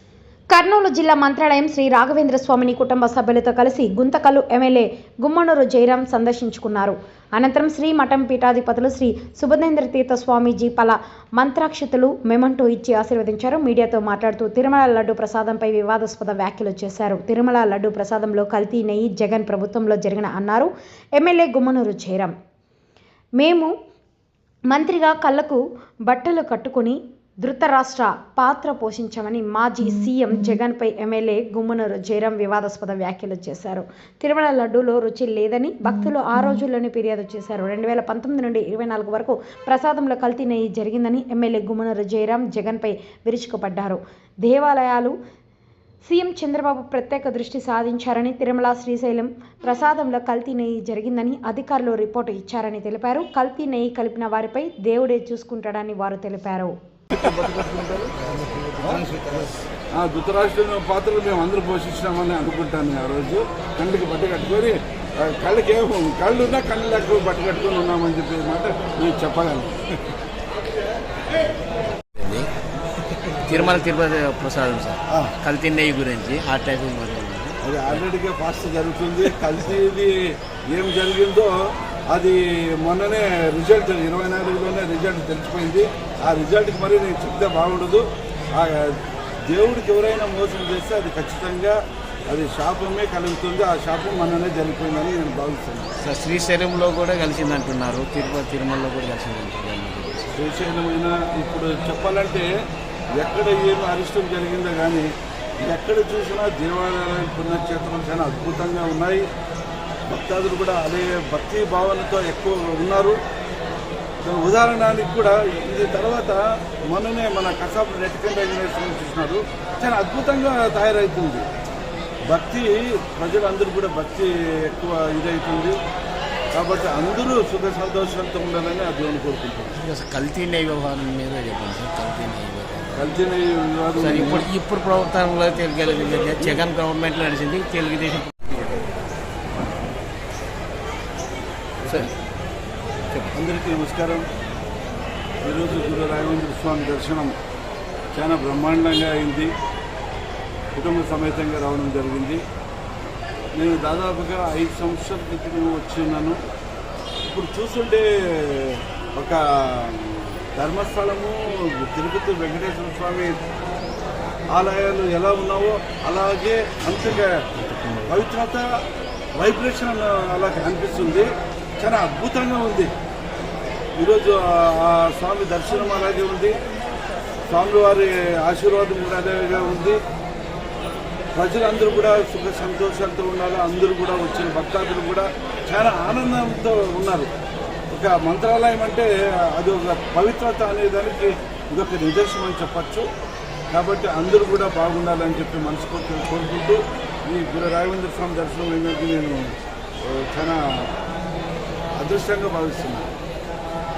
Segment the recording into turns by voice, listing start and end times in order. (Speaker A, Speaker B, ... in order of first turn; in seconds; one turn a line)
Speaker A: 0.5-22.3
Speaker A: 23.4-23.7
Speaker A: 24.7-45.1
Speaker A: 46.0-56.8
Speaker B: 57.1-58.1
Speaker B: 58.8-59.1
Speaker B: 59.9-69.8
Speaker C: 72.2-72.5
Speaker C: 73.4-78.0
Speaker B: 77.6-95.9
Speaker C: 96.0-100.3
Speaker B: 100.3-102.5
Speaker B: 103.2-105.1
Speaker B: 105.6-109.3
Speaker B: 110.1-113.2
Speaker B: 114.2-121.4
Speaker B: 122.3-125.8
Speaker B: 126.5-129.8
Speaker C: 129.8-132.9
Speaker B: 132.9-134.5
Speaker C: 134.0-138.8
Speaker B: 143.3-144.2
Speaker B: 145.4-147.4
Speaker B: 148.1-149.5
Speaker B: 150.7-152.4
Speaker B: 153.5-156.4
Speaker B: 157.3-163.4
Speaker B: 164.5-167.5
Speaker C: 167.7-168.2
Speaker B: 168.1-168.8
Speaker B: 169.4-172.9
Speaker B: 174.0-176.6
Speaker B: 177.5-180.0
Speaker B: 181.3-187.3
Speaker B: 187.9-193.1
Speaker B: 193.7-200.9
Speaker B: 202.0-203.1